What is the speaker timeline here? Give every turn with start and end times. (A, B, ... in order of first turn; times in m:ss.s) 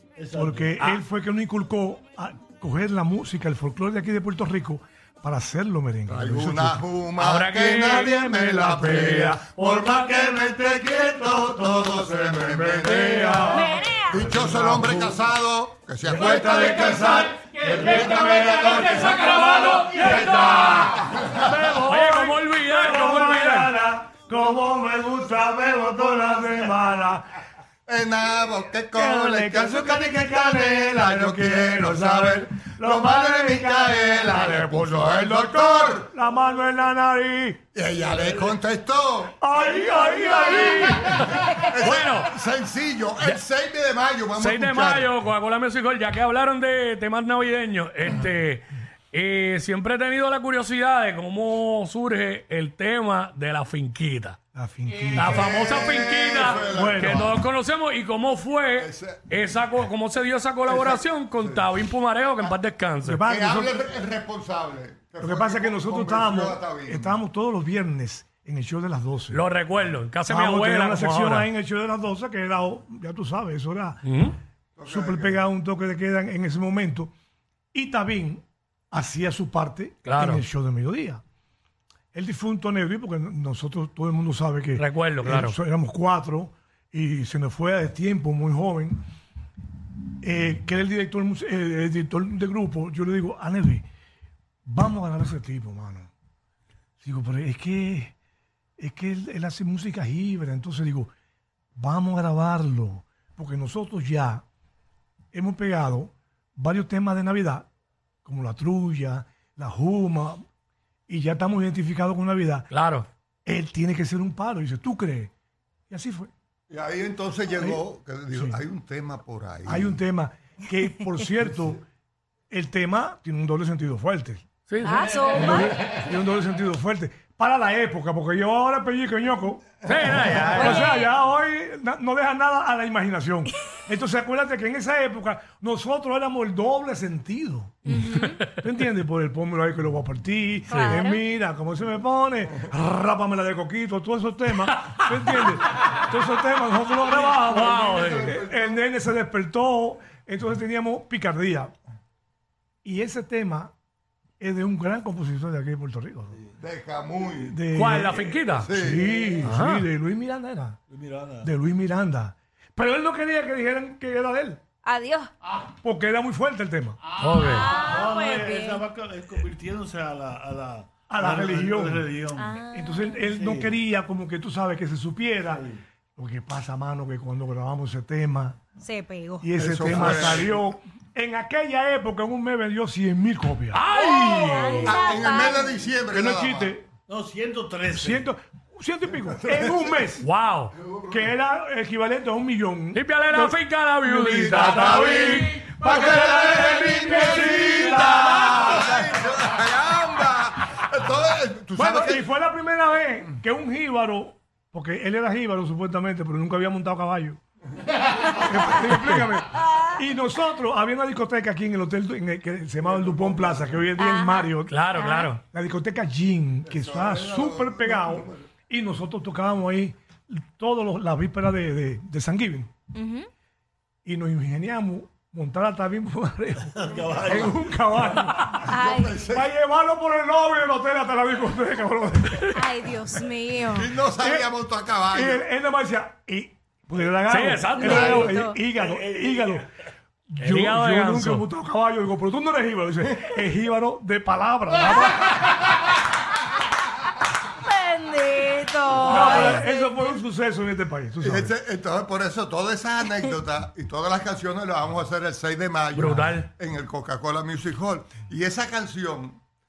0:00.2-0:00.8 A
0:00.3-0:06.8 B
0:06.1-0:13.5 C
0:07.2-0:10.1 D
0:12.8-0:13.4 D
0:13.0-0:13.6 B
0:13.5-0:14.3 E
0:14.1-0:21.5 C
0:14.3-0:14.8 A
0:14.4-0:15.0 B
0:16.0-0:20.9 B
0:16.2-0:16.7 A
0:17.6-0:20.6 A
0:17.9-0:23.7 D
0:21.5-0:27.3 B
0:26.2-0:26.6 A
0:27.9-0:36.1 C
0:28.9-0:37.6 B
0:37.7-0:39.4 C
0:38.1-0:38.5 A
0:39.4-0:41.4 B
0:39.8-0:40.8 A
0:40.7-0:42.3 D
0:41.7-0:45.1 C
0:44.3-0:54.4 D
0:54.5-0:55.5 B
0:55.1-1:03.2 D
0:55.2-0:57.4 C
0:56.7-0:57.3 B
0:58.8-0:59.4 C
1:00.7-1:01.8 C
1:03.0-1:03.8 B
1:03.2-1:07.2 C
1:05.2-1:09.4 B
1:09.3-1:11.5 D
1:10.3-1:14.0 B
1:14.0-1:14.4 D
1:14.8-1:15.4 C
1:14.8-1:17.1 B
1:17.7-1:21.2 B
1:20.0-1:20.4 D
1:22.1-1:29.0 B
1:24.8-1:25.6 D
1:30.2-1:33.8 B
1:34.7-1:36.1 B
1:37.0-1:38.1 B
1:38.8-1:41.1 B
1:41.8-1:44.4 B
1:45.3-1:47.7 B
1:48.2-1:50.4 B
1:51.1-1:52.7 B
1:52.7-1:53.1 D
1:53.5-1:55.3 B
1:55.9-1:56.3 B
1:56.7-2:00.0 C
1:57.6-1:58.6 B
1:59.7-2:01.8 B
2:02.5-2:04.4 B
2:04.7-2:05.5 D
2:04.8-2:05.8 E
2:05.3-2:31.7 B
2:09.8-2:10.9 D
2:10.6-2:11.1 E
2:17.9-2:18.4 E
2:20.7-2:21.2 E
2:27.1-2:28.8 C
2:27.2-2:28.4 D
2:32.8-2:33.7 B
2:34.4-2:36.4 B
2:36.6-2:37.6 C
2:37.4-2:40.8 B
2:37.7-2:38.7 D
2:38.5-2:39.1 C
2:39.4-2:39.9 D
2:40.9-2:41.5 A
2:41.4-2:44.6 B
2:44.8-2:45.3 E
2:45.8-2:47.0 B
2:47.2-2:52.6 A
2:47.2-2:47.7 D
2:47.4-2:48.8 E
2:51.1-2:52.1 B
2:52.4-2:53.3 E
2:52.7-2:58.6 B
2:53.2-2:53.8 A
2:58.8-3:00.3 E
2:59.4-3:03.8 B
2:59.6-3:00.5 C
3:03.7-3:05.0 D
3:03.9-3:05.8 E
3:04.8-3:06.8 C
3:06.0-3:06.9 B
3:07.1-3:08.3 A
3:07.9-3:10.3 B
3:09.2-3:10.0 C
3:10.2-3:10.7 D
3:10.8-3:11.2 C
3:11.1-3:19.1 B
3:12.9-3:16.1 D
3:14.5-3:18.6 A
3:15.9-3:22.3 C
3:21.8-3:27.4 B
3:28.2-3:34.8 B
3:32.8-3:33.8 C
3:34.0-3:35.3 E
3:34.7-3:35.4 D
3:35.4-3:42.7 B
3:36.7-3:38.5 C
3:42.9-3:43.3 E
3:44.0-3:52.6 B
3:46.8-3:47.6 A
3:46.9-3:47.6 C
3:48.5-3:49.5 C
3:48.7-3:49.2 E
3:52.5-3:53.9 E
3:53.7-3:55.4 C
3:54.2-3:54.5 B
3:55.1-3:59.7 B
3:57.3-3:58.4 D
3:57.8-3:58.6 E
3:57.8-3:58.3 C
3:58.8-3:59.4 A
4:00.3-4:05.3 B
4:00.4-4:01.4 D
4:03.0-4:03.4 C
4:07.6-4:10.1 E
4:09.0-4:11.6 B
4:09.1-4:09.6 C
4:11.2-4:19.4 C
4:15.9-4:16.5 D
4:16.0-4:16.3 B